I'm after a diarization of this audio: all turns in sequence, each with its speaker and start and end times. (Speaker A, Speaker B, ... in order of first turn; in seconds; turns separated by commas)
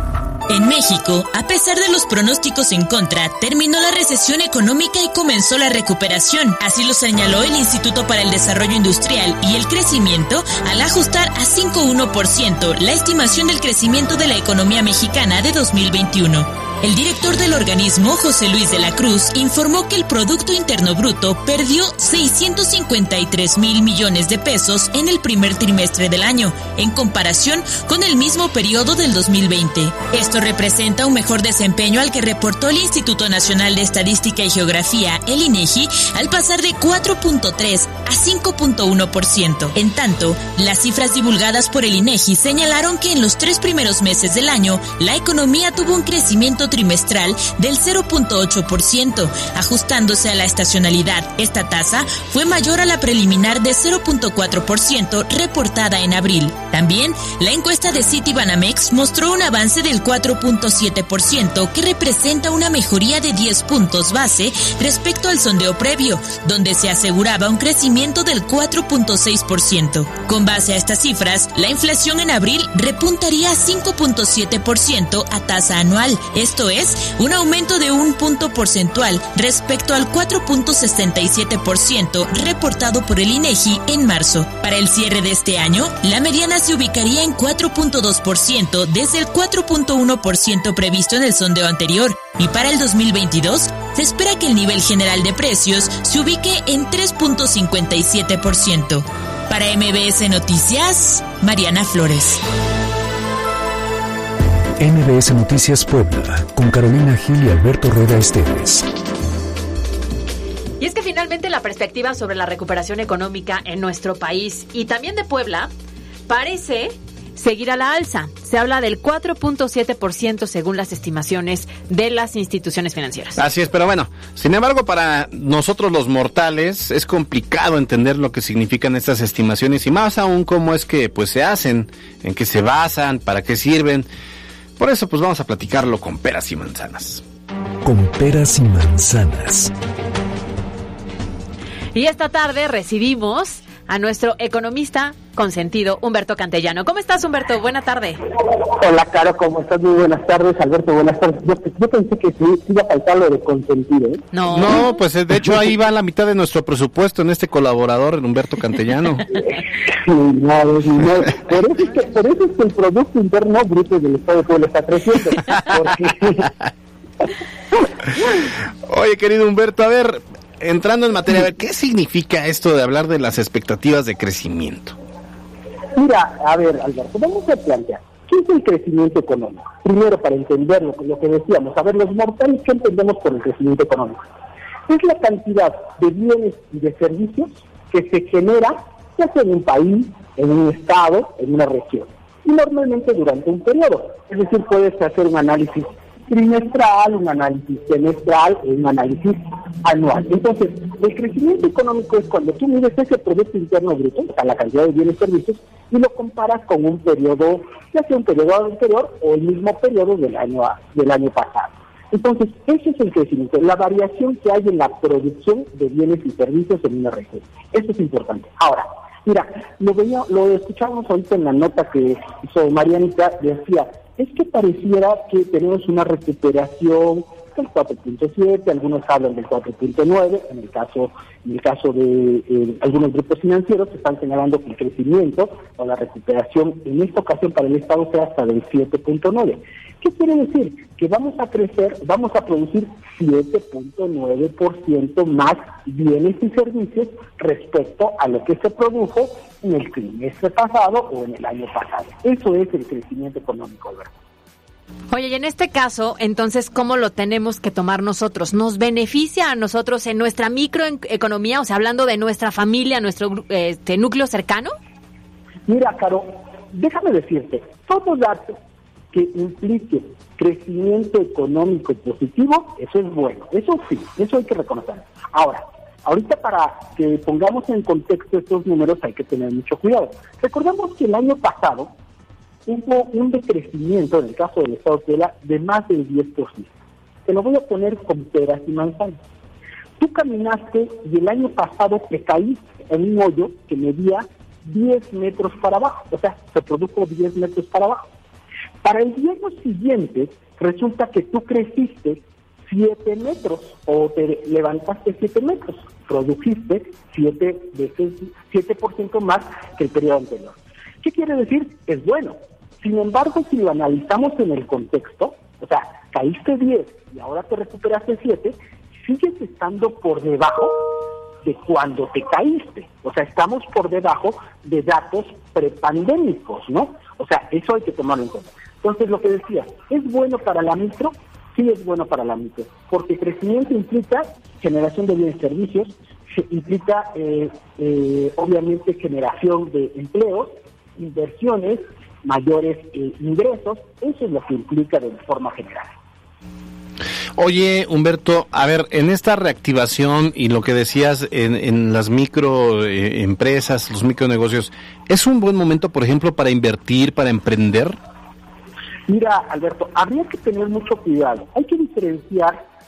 Speaker A: 0.5-102.4, Speaker B: 104.8-108.8, Speaker C: 110.8-115.7, Speaker C: 116.3-123.4, Speaker D: 123.4-134.1, Speaker D: 134.8-137.2, Speaker B: 137.8-139.7, Speaker C: 141.9-148.2, Speaker E: 148.6-154.2, Speaker C: 154.3-155.0, Speaker D: 154.5-159.3, Speaker E: 159.9-166.5, Speaker D: 168.9-175.0, Speaker E: 175.9-184.2, Speaker E: 184.9-254.1, Speaker C: 255.1-264.7, Speaker E: 265.7-268.6, Speaker E: 269.1-281.9, Speaker E: 282.6-286.7, Speaker E: 287.2-289.2, Speaker E: 290.0-298.1, Speaker E: 298.8-320.7, Speaker E: 321.4-345.9, Speaker D: 347.4-357.9, Speaker E: 359.1-362.6